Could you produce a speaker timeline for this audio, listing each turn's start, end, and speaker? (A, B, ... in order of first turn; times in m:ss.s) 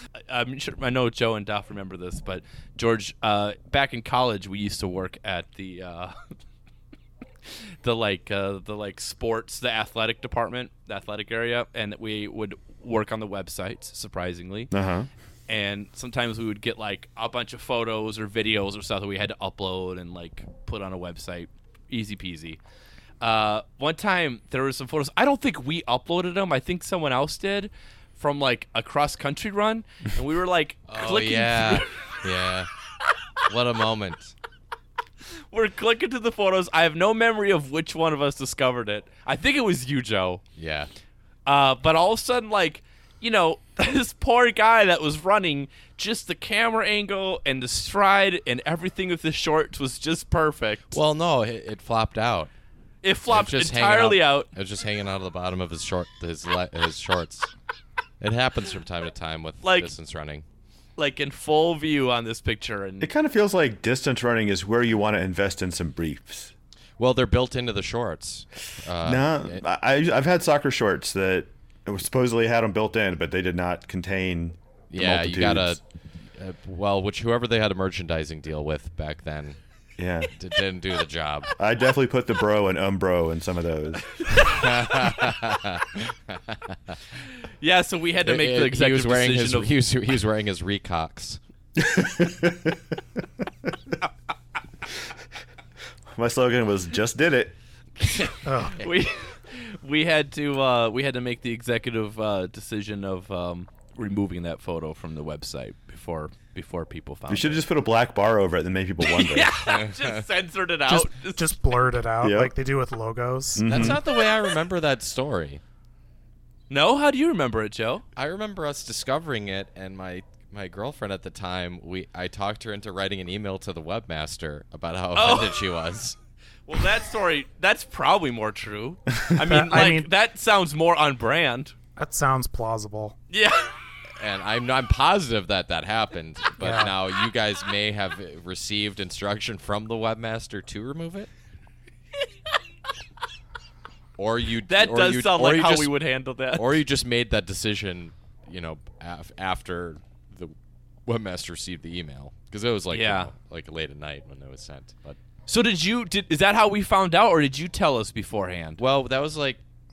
0:00.3-0:06.3 A
0:07.5-0:14.7 A
0:14.7-0:15.1 B
0:15.5-0:22.6 A
0:23.2-0:31.9 A
0:30.9-0:32.7 C
0:33.5-0:34.3 C
0:35.5-0:40.4 A
0:40.6-0:40.9 C
0:41.5-0:51.0 A
0:50.9-0:52.5 C
0:53.0-0:54.5 A
0:53.3-0:57.5 C
0:58.2-1:00.4 C
0:59.6-0:59.9 A
1:01.0-1:03.1 A
1:03.0-1:06.5 B
1:07.0-1:09.6 C
1:09.0-1:15.8 B
1:14.9-1:19.6 C
1:20.0-1:20.3 B
1:20.3-1:21.5 C
1:21.6-1:24.1 B
1:24.5-1:27.0 C
1:27.6-1:29.8 A
1:28.2-1:31.4 C
1:31.8-1:33.0 B
1:36.1-1:37.6 B
1:38.0-1:47.6 A
1:38.4-1:38.8 D
1:47.3-1:49.5 B
1:49.0-1:51.6 A
1:49.7-1:50.2 C
1:50.9-1:53.9 D
1:52.2-1:52.5 B
1:53.6-1:54.0 B
1:53.6-1:55.6 C
1:54.0-1:54.4 A
1:56.7-1:58.0 A
1:58.2-2:06.2 C
2:05.1-2:05.7 A
2:06.7-2:11.8 A
2:09.4-2:10.1 D
2:12.0-2:13.2 D
2:13.3-2:13.7 A
2:14.2-2:21.3 C
2:16.6-2:16.9 D
2:24.2-2:25.9 C
2:24.7-2:26.8 A
2:26.6-2:35.2 C
2:32.9-2:33.3 A
2:35.5-2:38.8 A
2:38.8-2:39.6 C